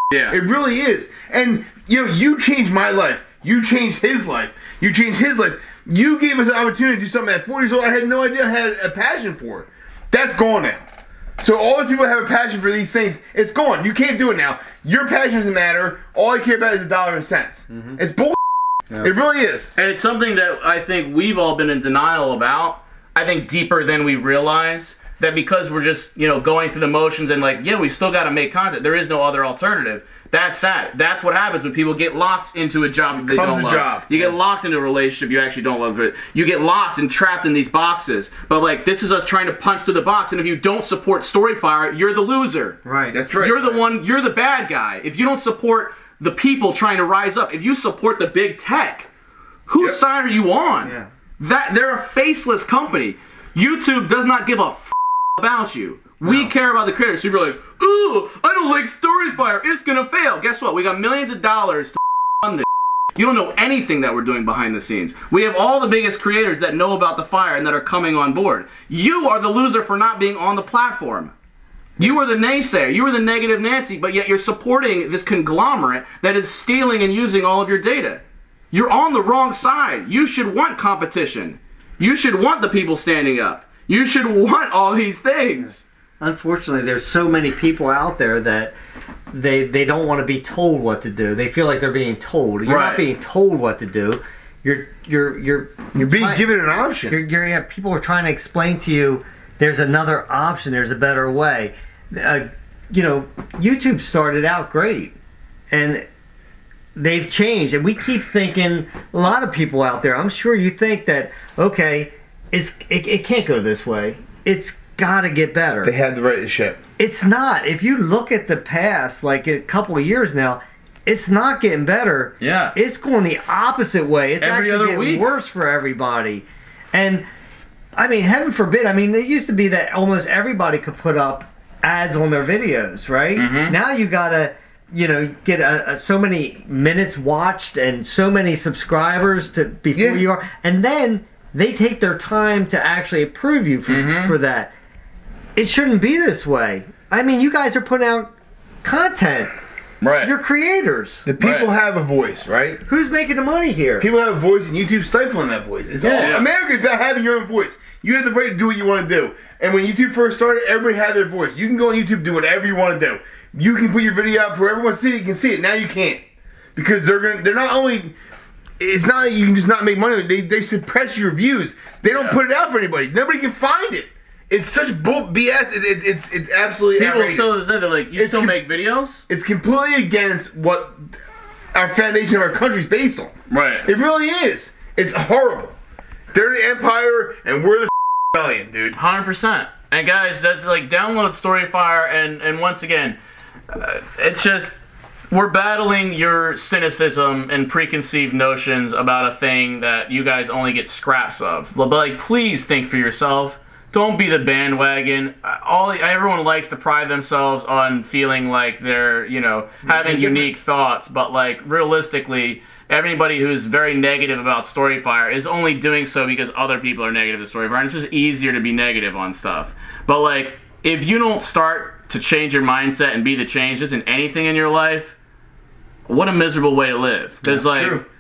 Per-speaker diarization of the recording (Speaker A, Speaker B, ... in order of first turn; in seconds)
Speaker A: 0.1-0.4, 19.7-42.8, 43.4-49.1, 49.7-71.3, 72.0-78.2, 78.7-85.8, 92.7-93.1, 122.4-122.8, 124.4-125.3, 133.3-133.8, 143.9-144.3, 150.0-150.3, 151.4-151.7, 156.2-156.5, 172.1-172.4, 176.9-179.2, 183.5-183.9, 188.9-193.2, 193.7-194.7, 195.3-225.1, 226.1-228.0
Speaker B: 0.3-10.8, 11.4-18.4, 19.0-19.7, 33.1-34.1, 43.1-43.8, 95.9-97.2, 115.8-116.8, 139.9-140.2, 151.2-152.8, 154.0-166.2, 166.8-168.1, 168.8-177.6, 178.1-178.6, 179.3-181.0, 181.7-183.3, 183.8-185.7, 186.3-189.0, 209.8-210.5, 227.6-228.0
Speaker C: 17.7-18.0, 42.8-43.2, 50.8-51.1, 56.2-56.5, 85.5-88.7, 89.3-96.4, 97.1-105.1, 105.7-106.0, 107.0-115.9, 117.0-127.2, 128.0-144.7, 145.6-148.3, 148.8-149.5, 150.2-151.3, 152.9-154.1, 156.0-156.4